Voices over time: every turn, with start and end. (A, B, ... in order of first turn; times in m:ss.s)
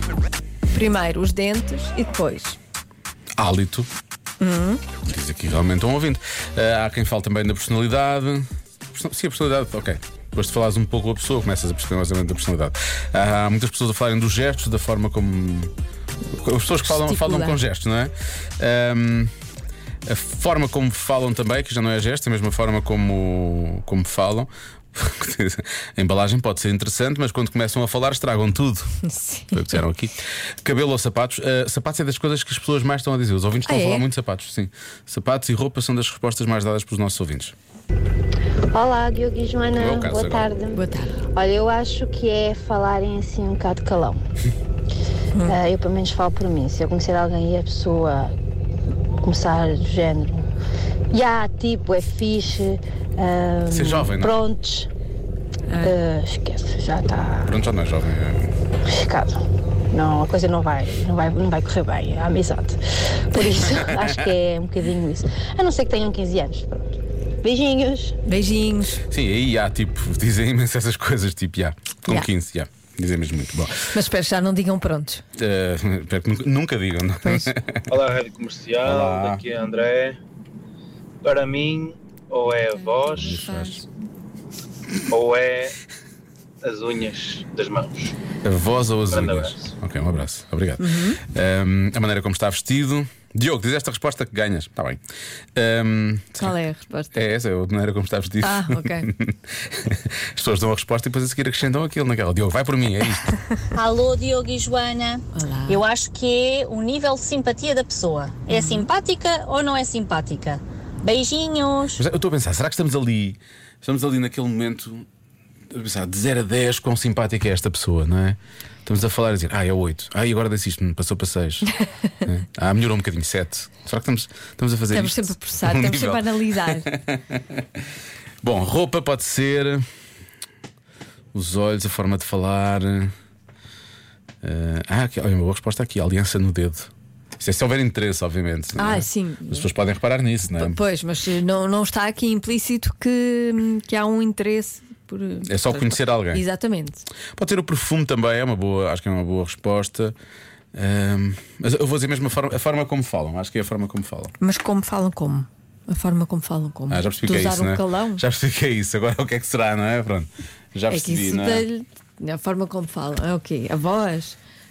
0:00.7-0:02.6 A
0:03.4-0:03.9 B
0:04.4-0:04.8 A
0:05.0-0:15.7 B
0:16.2-0:19.3 B
0:16.8-0:17.6 A
0:20.0-0:29.0 B
0:29.0-0:29.7 A
0:29.5-0:37.5 B
0:33.6-0:34.0 A
0:38.7-0:40.8 C
0:39.7-0:40.5 B
0:40.7-0:41.2 A
0:41.3-0:44.2 C
0:45.3-0:45.6 A
0:45.4-0:48.3 C
0:49.2-0:50.5 C
0:51.1-0:54.9 C
0:53.7-0:54.4 B
0:55.7-0:55.9 A
0:55.8-0:57.5 C
0:57.4-0:58.5 B
0:58.8-1:08.2 C
1:03.7-1:04.0 B
1:08.2-1:09.0 A
1:09.1-1:13.9 B
1:13.8-1:15.2 A
1:15.4-1:17.8 B
1:17.2-1:17.5 A
1:17.9-1:20.2 D
1:18.8-1:19.4 B
1:21.2-1:23.4 D
1:22.7-1:23.8 A
1:23.1-1:23.8 B
1:25.1-1:25.7 D
1:26.6-1:28.1 D
1:28.4-1:35.0 B
1:29.1-1:29.7 D
1:30.8-1:31.2 A
1:35.5-1:36.6 B
1:36.4-1:37.2 A
1:37.1-1:43.4 B
1:38.4-1:39.1 A
1:43.7-1:52.0 E
1:45.3-1:45.8 A
1:48.5-1:48.9 A
1:52.0-1:55.0 B
1:55.7-2:01.7 B
2:02.2-2:07.6 B
2:04.9-2:06.9 A
2:08.4-2:09.8 B
2:11.3-2:13.1 B
2:14.4-2:20.8 B
2:18.8-2:19.7 A
2:20.6-2:27.0 A
2:25.4-2:26.4 B
2:27.3-2:30.1 B
2:30.7-2:34.3 B
2:34.4-2:38.2 A
2:36.9-2:41.6 B
2:40.9-2:44.4 A